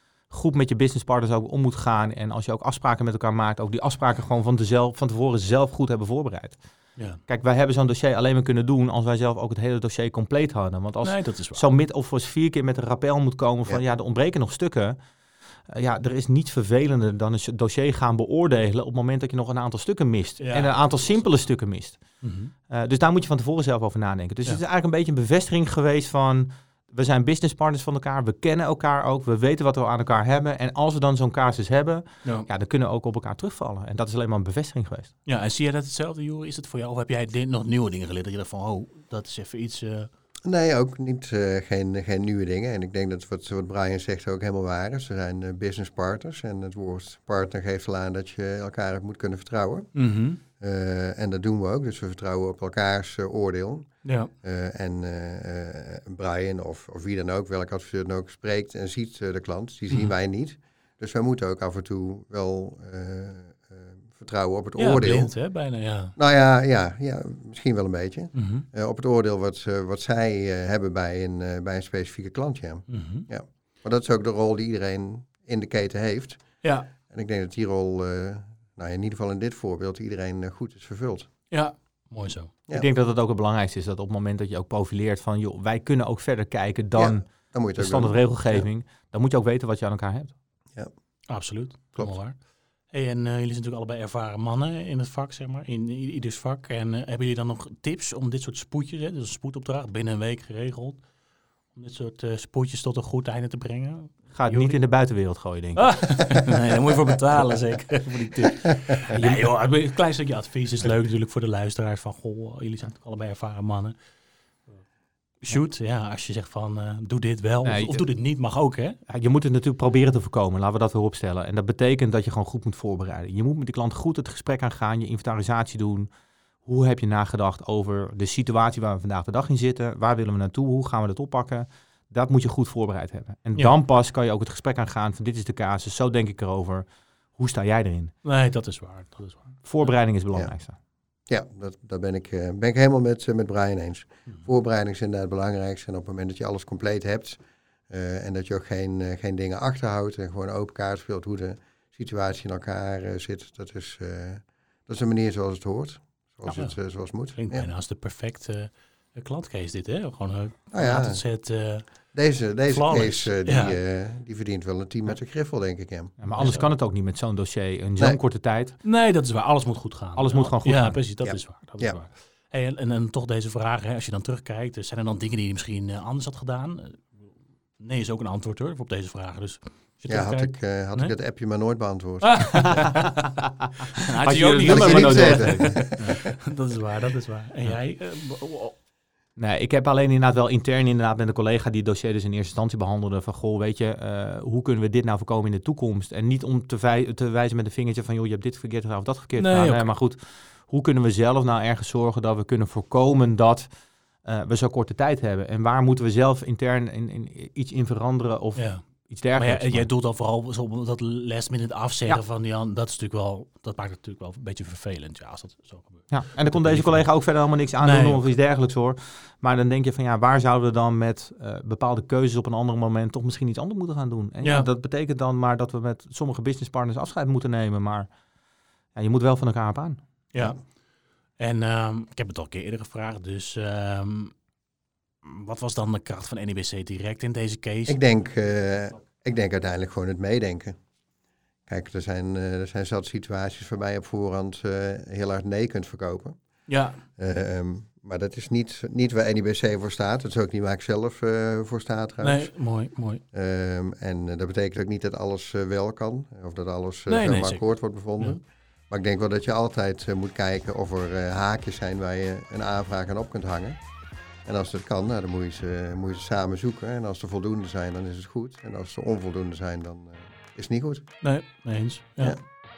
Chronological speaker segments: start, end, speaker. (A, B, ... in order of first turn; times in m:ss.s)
0:00.3-0:15.0 A
0:07.0-0:07.2 B
0:11.0-0:11.6 B
0:15.7-0:35.1 A
0:20.4-0:21.2 B
0:22.2-0:22.5 B
0:35.2-0:40.1 B
0:40.4-1:05.4 C
0:49.9-0:50.4 B
0:54.0-0:54.3 B
1:04.8-1:06.2 B
1:06.2-1:21.3 C
1:08.3-1:08.7 B
1:12.9-1:13.3 B
1:16.6-1:16.9 B
1:21.5-1:22.5 B
1:22.7-1:30.4 A
1:26.9-1:28.7 C
1:31.3-1:41.0 B
1:41.7-1:44.8 B
1:44.3-1:46.5 A
1:45.8-1:54.0 B
1:49.1-1:49.6 A
1:55.4-1:59.0 B
1:57.6-1:58.1 A
1:59.1-2:06.1 A
2:06.6-2:18.1 A
2:18.2-2:19.9 B
2:19.6-2:20.8 A
2:21.3-2:37.7 C
2:36.5-2:43.8 B
2:40.7-2:41.3 C
2:41.9-2:46.1 C
2:46.2-2:48.8 A
2:46.3-2:46.7 B
2:48.8-3:01.1 B
2:50.2-2:51.0 A
2:51.2-2:52.0 C
3:00.1-3:03.0 C
3:02.2-3:03.2 B
3:02.6-3:03.4 A
3:04.0-3:08.8 B
3:04.3-3:06.0 A
3:04.6-3:06.1 C
3:09.4-3:23.7 A
3:19.4-3:19.9 B
3:24.2-3:29.9 A
3:28.6-3:37.2 B
3:36.1-3:48.1 A
3:37.8-3:38.3 B
3:44.4-3:44.7 B
3:48.9-3:50.0 A
3:50.3-3:50.7 B
3:51.4-3:54.4 B
3:55.2-3:58.0 B
3:57.9-4:00.8 C
4:01.7-4:12.5 C
4:06.7-4:07.0 B
4:12.2-4:13.2 B
4:13.3-4:23.8 C
4:17.1-4:18.4 B
4:24.4-4:31.2 C
4:31.2-4:32.4 B